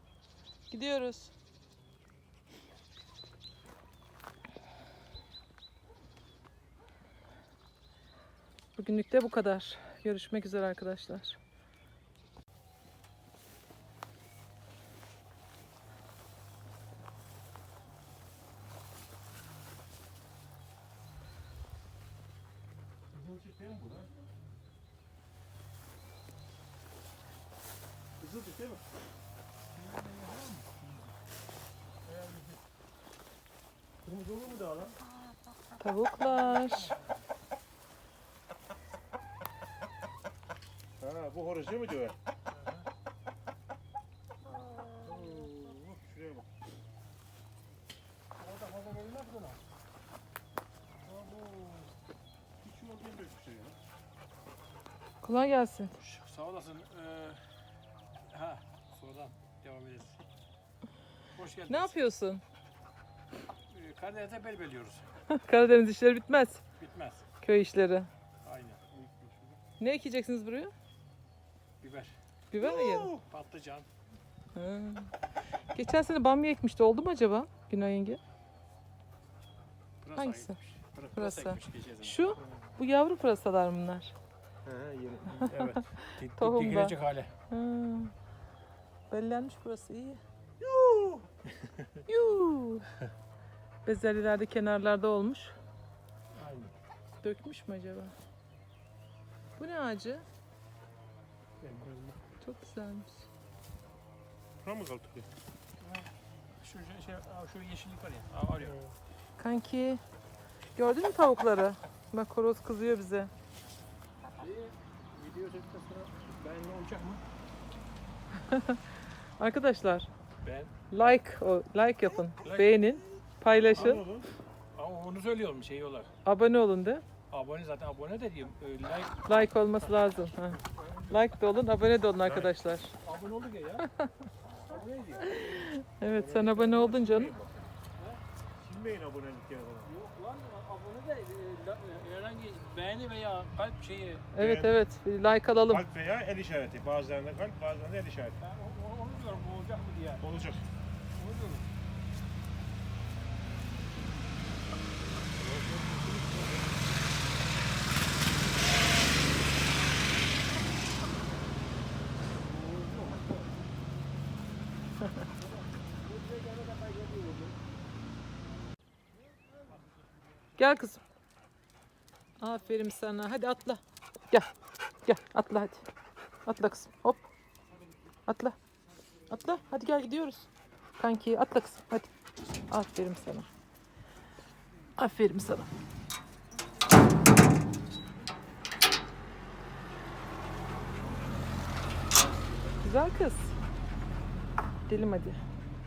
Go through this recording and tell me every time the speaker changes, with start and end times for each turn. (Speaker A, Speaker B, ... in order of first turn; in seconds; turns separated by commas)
Speaker A: 0.7-1.3, Speaker A: 8.8-11.4, Speaker B: 23.1-24.2, Speaker B: 28.2-28.8, Speaker C: 29.8-30.9, Speaker B: 34.0-35.0, Speaker A: 35.8-37.0, Speaker C: 36.5-37.0, Speaker B: 41.0-42.2, Speaker C: 42.5-42.8, Speaker C: 45.0-45.6, Speaker B: 45.0-46.5, Speaker C: 48.4-49.6, Speaker B: 51.1-51.9, Speaker B: 52.6-53.8, Speaker A: 55.2-56.0, Speaker C: 56.0-57.4, Speaker C: 58.3-60.2, Speaker C: 61.4-62.0, Speaker A: 61.7-62.4, Speaker C: 63.7-65.1, Speaker A: 65.3-66.6, Speaker C: 66.8-67.2, Speaker A: 67.4-68.1, Speaker C: 68.4-69.6, Speaker A: 69.8-70.7, Speaker C: 71.8-72.1, Speaker A: 72.5-73.2, Speaker B: 72.6-73.2, Speaker C: 73.1-73.9, Speaker A: 74.5-75.1, Speaker A: 75.7-78.2, Speaker C: 80.0-82.4, Speaker A: 80.2-80.6, Speaker A: 81.1-84.1, Speaker B: 84.6-85.8, Speaker C: 85.5-87.3, Speaker A: 85.8-87.0, Speaker A: 87.5-88.1, Speaker A: 89.1-90.2, Speaker B: 90.6-91.2, Speaker A: 92.1-92.9, Speaker A: 93.8-95.5, Speaker C: 96.4-96.7, Speaker A: 97.2-98.1, Speaker A: 99.6-100.2, Speaker C: 101.6-102.2, Speaker A: 102.4-103.2, Speaker B: 104.6-105.3, Speaker C: 105.8-108.8, Speaker B: 108.6-108.9, Speaker A: 109.4-110.0, Speaker A: 110.8-113.3, Speaker C: 114.4-117.2, Speaker A: 118.3-118.8, Speaker A: 119.4-120.1, Speaker C: 120.4-121.1, Speaker A: 120.9-124.0, Speaker C: 122.4-122.8, Speaker B: 123.6-124.3, Speaker C: 123.7-124.1, Speaker C: 124.7-126.1, Speaker A: 126.2-127.1, Speaker C: 127.3-129.7, Speaker A: 129.2-132.9, Speaker C: 130.4-131.2, Speaker B: 132.2-132.5, Speaker C: 133.0-133.9, Speaker A: 133.9-134.3, Speaker C: 134.7-135.5, Speaker A: 135.2-137.4, Speaker B: 136.1-137.7, Speaker B: 138.6-139.9, Speaker C: 139.8-144.3, Speaker A: 144.3-145.8, Speaker B: 144.4-144.8, Speaker B: 145.7-148.4, Speaker C: 148.4-150.2, Speaker B: 150.2-150.7, Speaker C: 151.2-151.7, Speaker C: 155.5-156.5, Speaker C: 162.5-163.5, Speaker C: 165.4-167.6, Speaker A: 170.6-171.0, Speaker A: 172.4-174.5, Speaker A: 175.0-175.9, Speaker A: 176.4-177.3, Speaker A: 178.3-178.6, Speaker A: 179.3-182.1, Speaker A: 182.7-183.5, Speaker A: 185.0-185.7, Speaker A: 192.8-193.6, Speaker A: 194.9-195.4